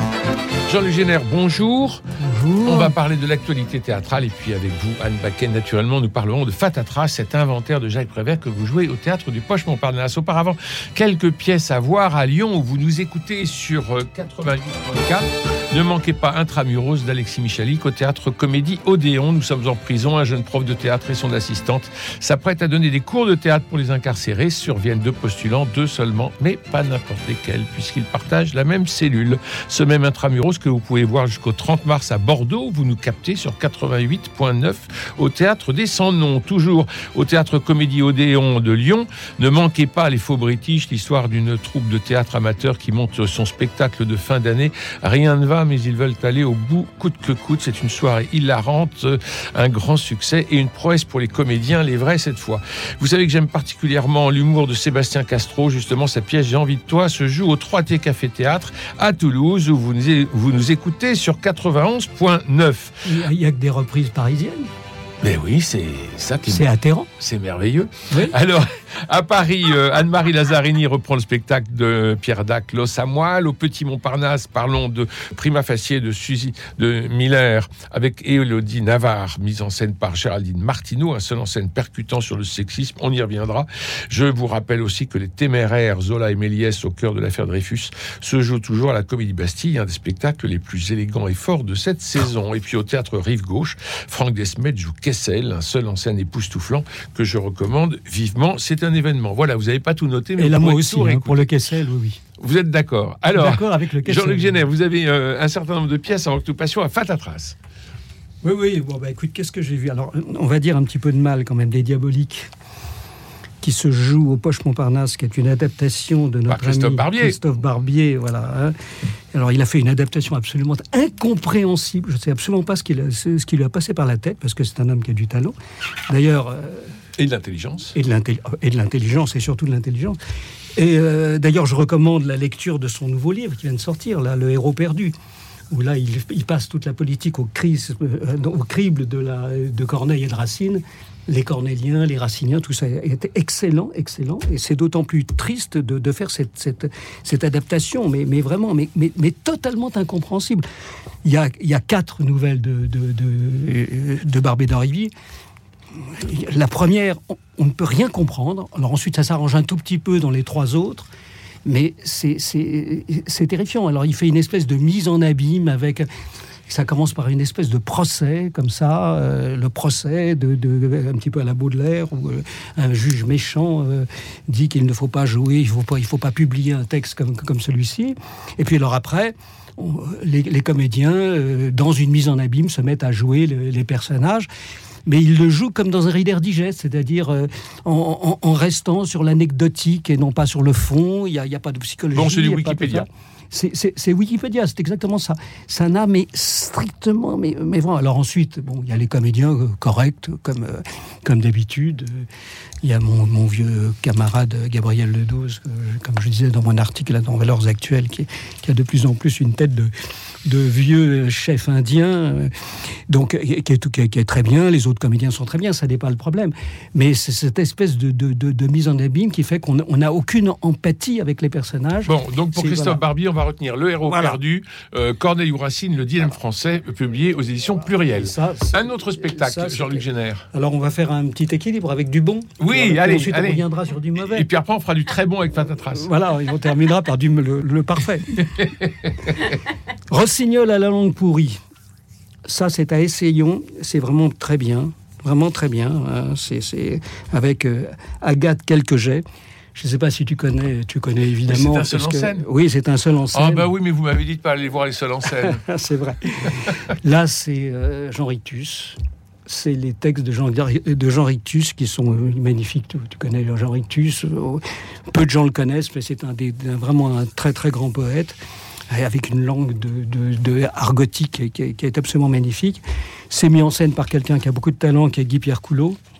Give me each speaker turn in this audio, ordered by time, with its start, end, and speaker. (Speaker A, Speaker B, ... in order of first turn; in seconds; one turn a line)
Speaker A: 0.7-2.0
Speaker B: 2.2-3.0
Speaker A: 2.6-63.1
Speaker B: 63.0-64.7
Speaker A: 65.2-66.7
Speaker B: 66.5-67.1
Speaker A: 67.2-101.4
Speaker B: 68.1-68.3
Speaker B: 100.4-102.2
Speaker A: 102.4-107.5
Speaker B: 103.3-104.6
Speaker B: 108.4-112.5
Speaker B: 113.6-118.7
Speaker A: 116.5-117.4
Speaker B: 119.3-125.5
Speaker B: 126.1-126.9
Speaker A: 127.2-127.9
Speaker B: 127.9-130.2
Speaker B: 130.7-135.1
Speaker B: 135.7-150.7
Speaker B: 151.2-155.1
Speaker B: 155.9-161.1
Speaker B: 161.6-166.1
Speaker B: 166.7-184.5
Speaker B: 185.1-202.3
Speaker A: 192.1-193.1
Speaker B: 202.8-209.9
Speaker B: 210.4-212.5
Speaker B: 213.1-223.0
Speaker A: 222.1-230.5
Speaker B: 224.0-224.4
Speaker B: 228.0-234.5
Speaker A: 232.6-236.1
Speaker B: 235.9-238.5
Speaker A: 238.6-239.5
Speaker B: 240.1-241.6
Speaker B: 242.4-249.2
Speaker B: 249.7-253.7
Speaker A: 251.4-252.4
Speaker A: 253.3-255.6
Speaker B: 255.4-268.4
Speaker B: 268.9-276.0